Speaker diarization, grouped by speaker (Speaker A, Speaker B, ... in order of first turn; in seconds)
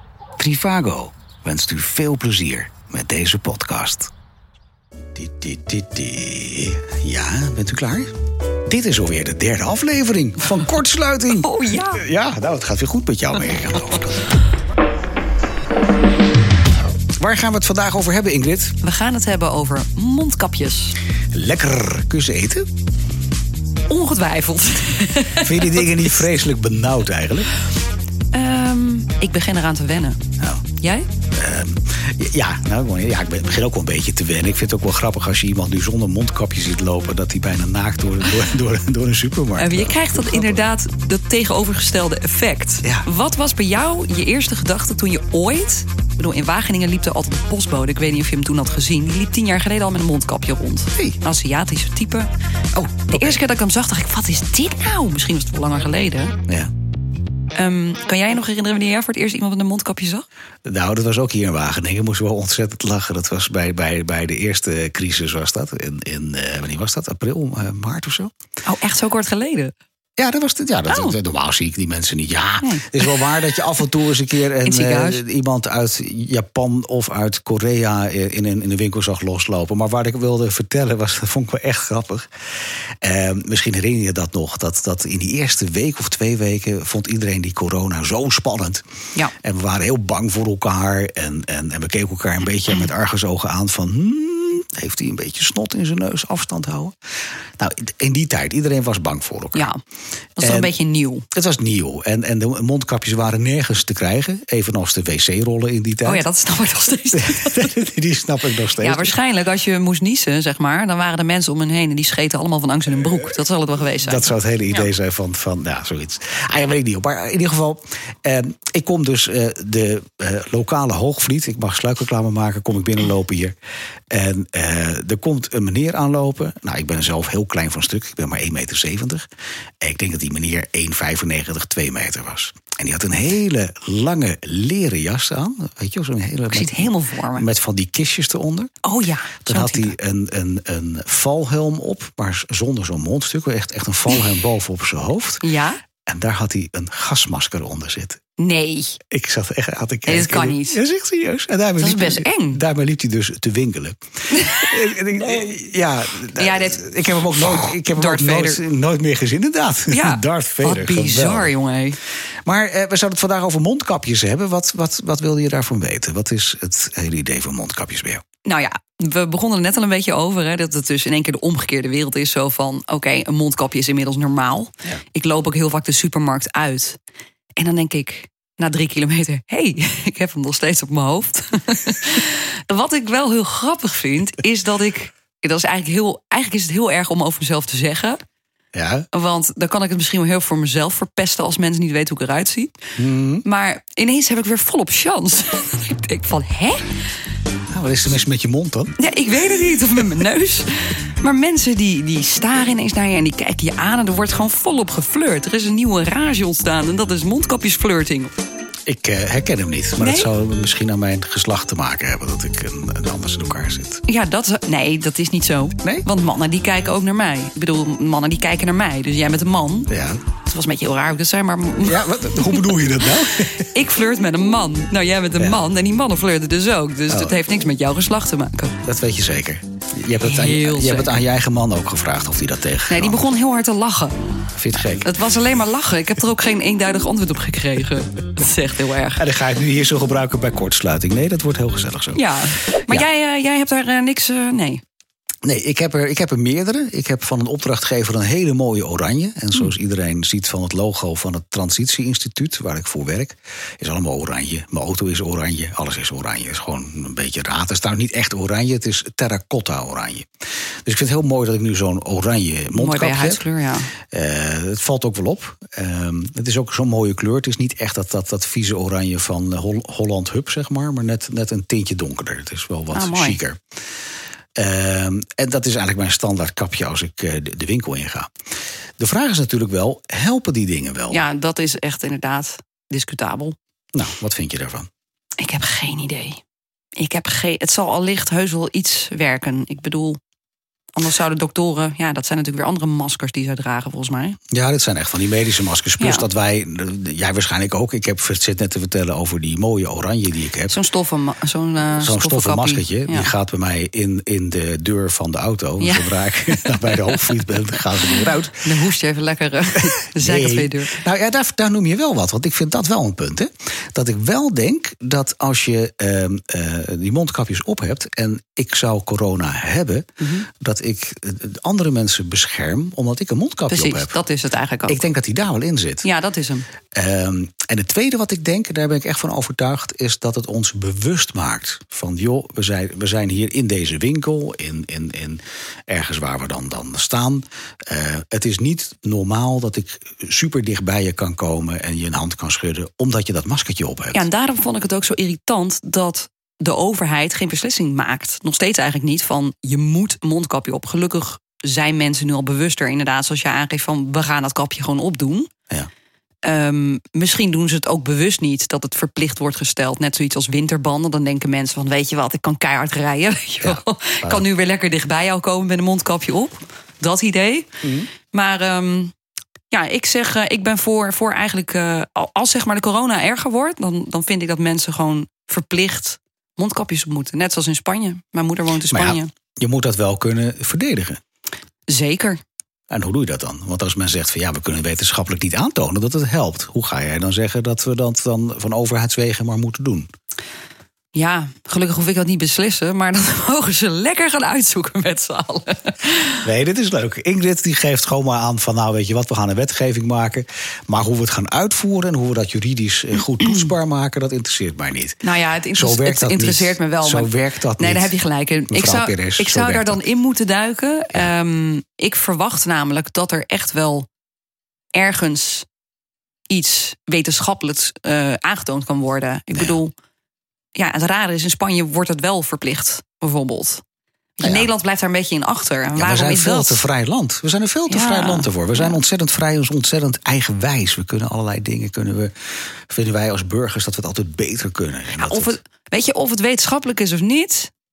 Speaker A: 0.4-4.1, 5.1-8.1, 8.7-14.3, 17.2-18.8, 21.3-22.7, 25.4-27.5, 31.3-40.7, 53.1-53.4, 60.6-68.3, 70.2-82.3, 83.0-88.8, 89.3-96.9, 97.6-99.7, 100.4-100.7, 101.3-106.2, 107.1-109.1, 114.0-123.5, 124.1-129.2, 129.8-138.7, 139.4-145.4, 146.1-148.2, 149.1-161.5, 162.4-168.2, 188.7-189.1, 193.0-193.4, 197.7-199.0, 208.9-214.0, 219.9-220.2, 221.8-223.7, 227.1-227.4, 228.8-233.2, 234.6-235.1, 239.2-242.2, 245.4-260.3, 260.8-263.4, 264.1-273.6, 274.6-278.3, 279.0-281.2, 283.9-284.9, 294.5-300.7, 302.0-308.7, 310.0-324.1, 324.9-326.1, 326.9-344.3, 363.6-364.4, 367.8-368.1, 378.9-381.2, 382.9-390.1, 396.4-405.2, 405.7-408.1, 408.7-410.0, 424.4-424.7, 425.9-432.3, 432.9-435.5
Speaker B: 11.3-12.0, 18.8-21.0, 23.9-26.1, 28.3-30.2, 30.8-31.1, 39.6-56.3, 57.5-60.2, 68.7-69.7, 70.9-71.2, 72.6-73.2, 74.6-75.2, 99.5-99.8, 100.4-101.3, 106.0-107.7, 108.7-114.8, 136.5-137.5, 138.8-139.9, 145.4-145.8, 148.4-149.0, 150.1-150.8, 151.8-152.6, 154.3-154.9, 156.3-158.6, 159.9-162.0, 168.4-177.0, 177.6-188.2, 189.1-192.8, 193.4-197.0, 199.0-208.3, 210.0-210.3, 214.1-219.9, 220.4-228.8, 230.2-231.1, 232.9-234.1, 234.7-239.2, 242.1-244.8, 262.7-263.9, 272.9-273.4, 281.1-283.6, 285.4-286.4, 287.0-290.2, 290.9-294.4, 296.0-296.3, 300.7-303.3, 305.8-307.1, 308.6-311.0, 320.2-320.5, 323.7-325.0, 326.0-326.7, 344.1-355.5, 356.4-369.1, 369.7-379.3, 381.9-382.4, 391.1-396.5, 405.2-414.1, 414.9-415.7, 416.5-419.9, 420.8-423.8, 424.4-426.9, 427.9-429.0, 435.2-437.7